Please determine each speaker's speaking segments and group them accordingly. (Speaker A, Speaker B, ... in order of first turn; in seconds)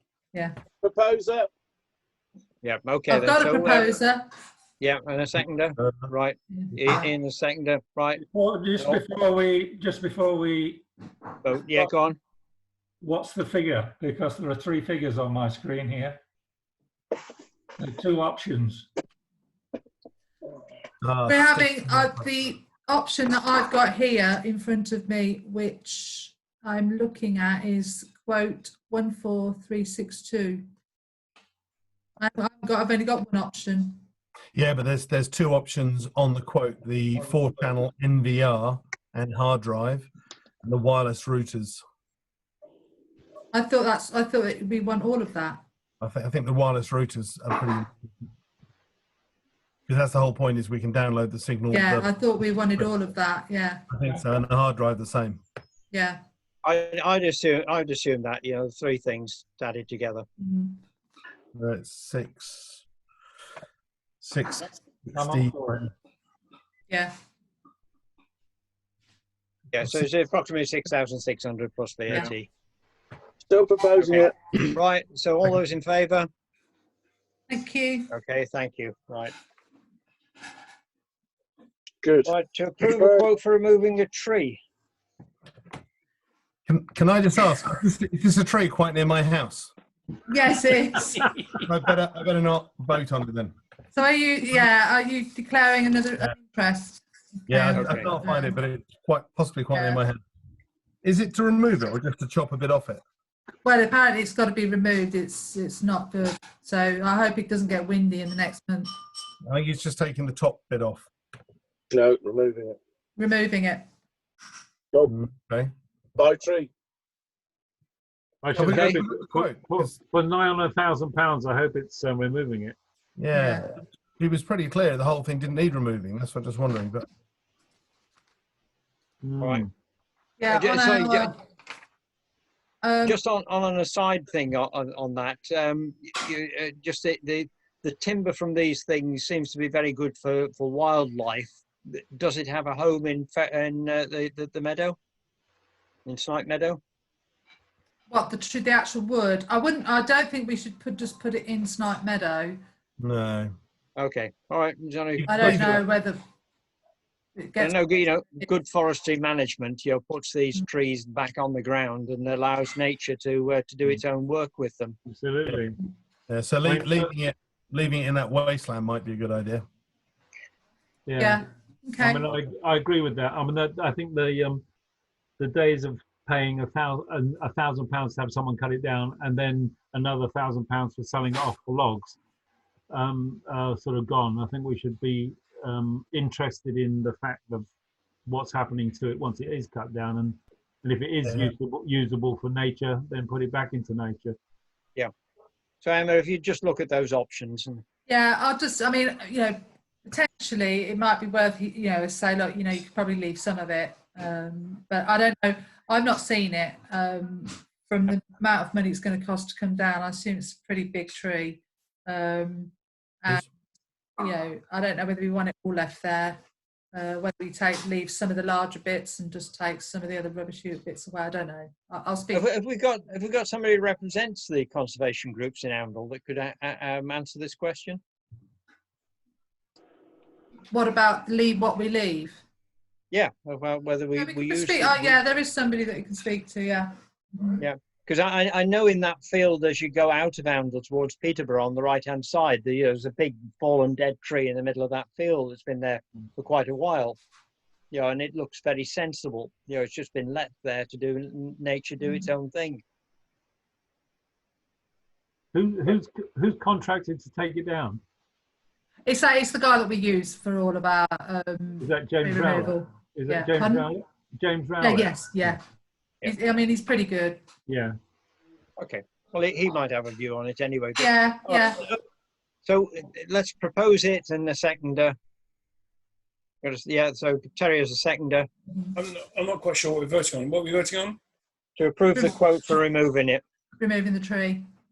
Speaker A: 0.3-0.6, 3.1-4.3, 6.6-7.1, 21.2-30.6, 32.2-34.0, 43.5-45.6, 51.7-53.9, 55.9-56.2, 60.4-60.8, 77.5-78.1, 90.3-91.3, 93.9-98.6, 99.7-100.0, 103.6-108.9, 113.2-113.8, 123.3-123.7, 130.4-131.3, 132.8-133.2, 148.1-152.6, 155.3-156.2, 157.4-157.8, 171.2-172.2, 198.1-212.7, 214.2-216.4, 216.9-222.4, 230.7-232.4, 234.2-237.6, 252.0-252.3, 259.1-263.9, 264.8-265.6, 266.2-267.4, 271.0-271.8, 283.8-284.6
Speaker B: 0.8-1.5, 73.5-74.5, 82.0-82.3, 82.8-83.3, 111.9-112.8, 116.2-116.7
Speaker C: 2.6-4.0, 4.8-8.2, 11.4-12.2, 56.6-60.2, 69.7-72.5, 74.0-76.3, 78.1-79.3, 82.2-84.6, 97.7-98.1, 118.7-119.0, 129.4-129.7, 130.5-131.3, 133.0-145.0, 146.1-146.8, 153.9-155.8, 157.6-165.0, 195.8-197.8, 222.3-228.0, 233.1-235.2, 237.6-247.2, 247.9-252.8, 268.8-272.0, 272.6-275.1, 276.6-278.5, 281.8-283.4
Speaker D: 5.8-6.1, 21.0-22.1, 34.5-40.1, 40.6-41.8, 46.0-48.1, 49.9-52.1, 53.9-55.4, 61.5-62.8, 64.2-65.9, 86.7-89.7, 91.5-93.5, 97.5-100.2, 101.0-103.0, 109.5-111.1, 115.1-115.7, 118.5-119.9, 123.2-127.0, 153.0-153.5, 155.2-155.8, 166.3-169.6, 191.2-191.5
Speaker E: 8.2-10.8, 13.0-16.2, 17.8-18.9, 65.1-65.8
Speaker F: 118.4-122.8, 129.2-129.7, 165.1-165.8, 166.6-167.1, 171.1-171.4, 172.0-174.6, 175.4-182.2, 182.9-187.7, 188.3-194.4, 255.5-258.0, 261.8-265.1, 267.7-267.9
Speaker G: 278.9-281.2